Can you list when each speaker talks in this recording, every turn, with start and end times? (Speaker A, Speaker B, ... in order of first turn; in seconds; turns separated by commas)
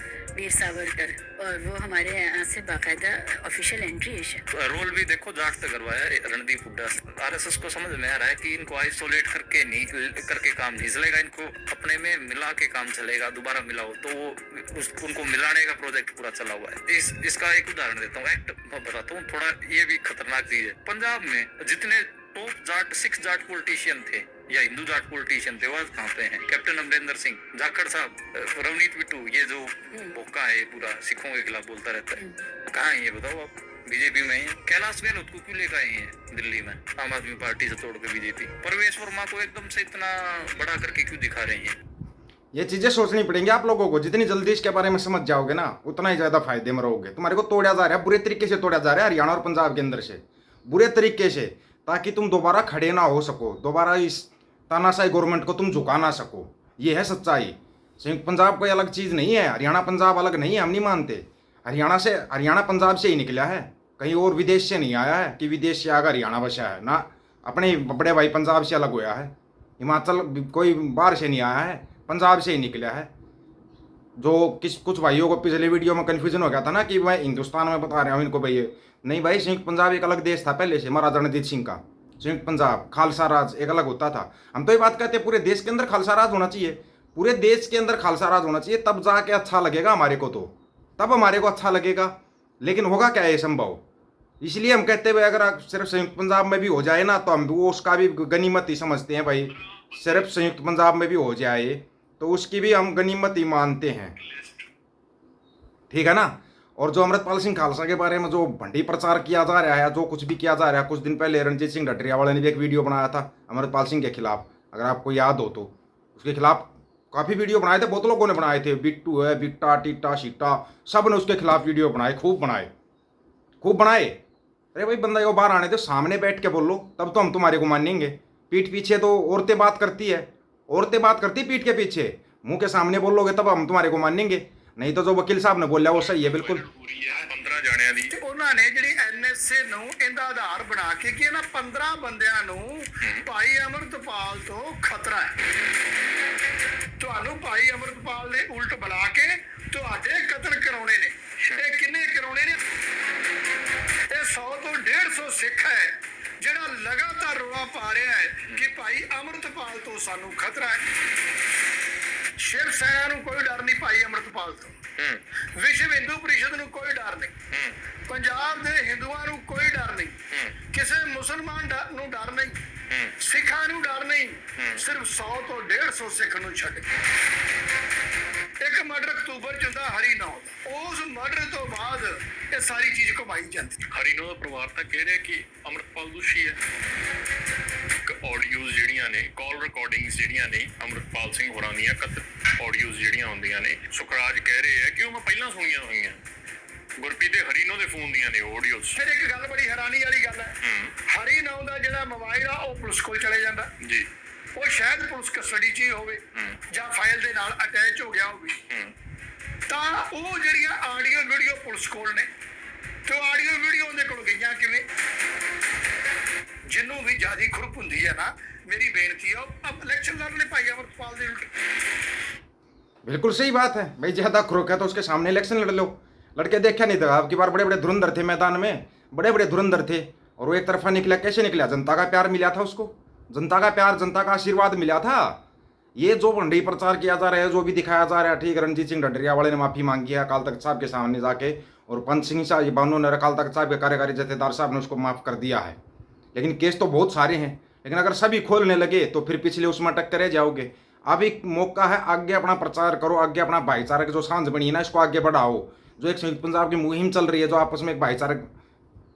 Speaker A: 0.3-4.4, Speaker B: 4.5-41.8, Speaker A: 32.1-32.4, Speaker C: 42.5-73.1, Speaker C: 74.2-93.8, Speaker C: 94.4-104.1, Speaker D: 104.3-104.6, Speaker C: 105.9-122.7, Speaker C: 123.6-124.2, Speaker C: 124.7-136.6, Speaker D: 136.0-138.1, Speaker E: 138.1-145.3, Speaker E: 147.0-152.5, Speaker E: 154.1-160.8, Speaker E: 162.4-164.8, Speaker E: 165.6-167.3, Speaker D: 167.5-167.8, Speaker E: 168.1-170.1, Speaker D: 170.3-170.6, Speaker E: 170.7-172.5, Speaker D: 172.9-173.1, Speaker E: 173.2-176.8, Speaker D: 174.6-174.8, Speaker E: 178.6-183.8, Speaker D: 183.9-186.6, Speaker D: 188.1-196.2, Speaker D: 197.0-199.0, Speaker E: 199.0-200.5, Speaker D: 200.6-200.9, Speaker E: 201.1-203.7, Speaker D: 203.8-204.1, Speaker E: 204.6-206.2, Speaker D: 206.3-206.6, Speaker E: 206.7-208.6, Speaker D: 208.7-208.9, Speaker E: 209.7-212.3, Speaker E: 213.1-214.8, Speaker E: 216.7-221.5, Speaker C: 223.0-235.4, Speaker C: 235.9-245.8, Speaker C: 246.3-258.5